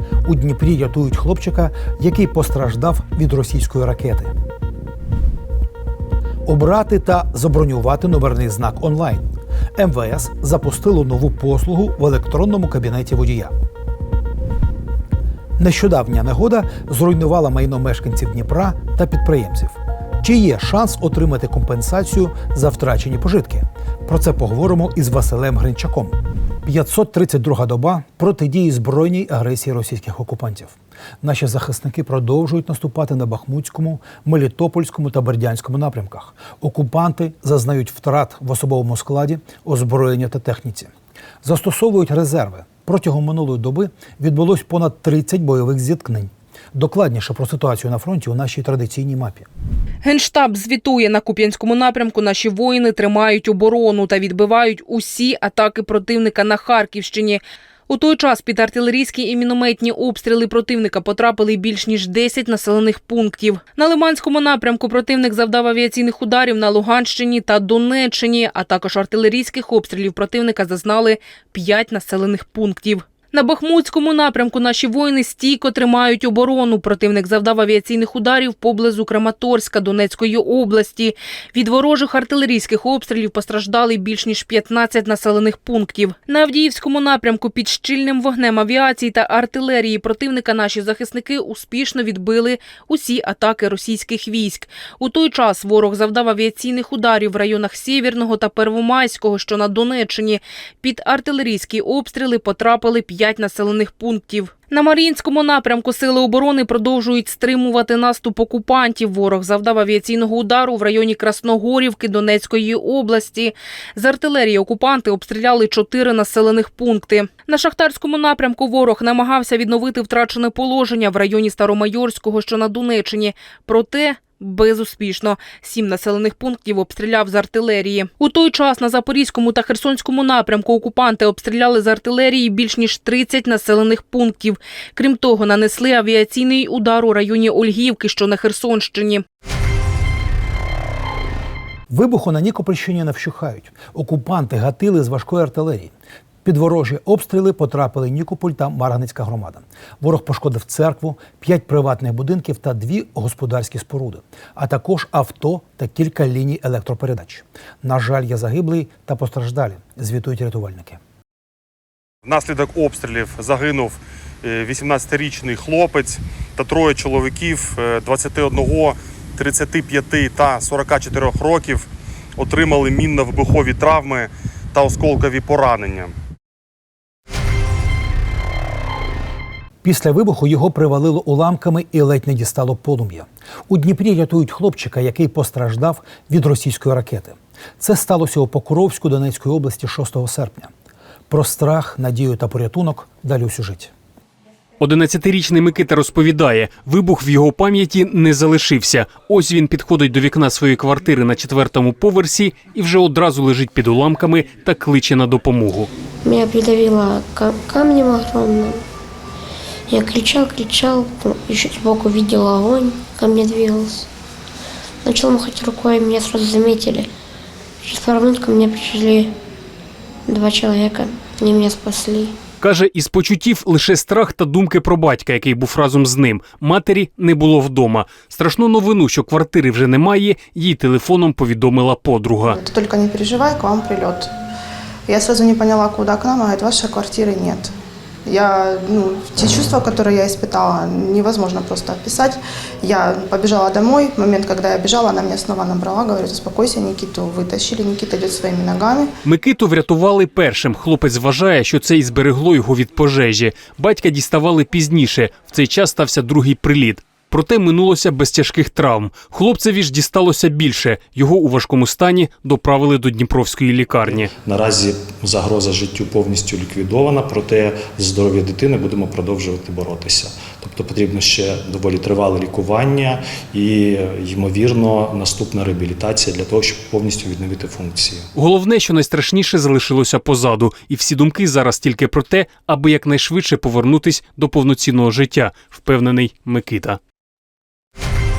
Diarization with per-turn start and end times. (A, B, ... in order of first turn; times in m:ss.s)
0:00.2-0:04.3 A
0:06.4-0:09.2 A
0:09.8-0:13.5 A
0:15.6-0:40.9 A
0:41.4-0:49.5 A
0:50.0-2:19.2 B
2:21.9-2:25.9 A
2:26.4-2:41.0 A
2:42.2-2:51.9 C
2:52.4-2:56.1 C
2:59.8-3:10.7 A
3:11.3-3:13.9 A
3:14.8-3:25.9 D
3:26.2-3:28.8 E
3:29.9-3:34.1 E
3:35.0-3:37.1 E
3:37.8-3:39.3 E
3:40.3-3:42.4 E
3:42.6-3:52.6 D
3:52.4-3:54.3 F
3:55.1-3:57.7 F
3:58.3-4:09.1 F
4:09.2-4:24.3 D
4:24.4-4:38.3 G
4:38.4-4:47.0 D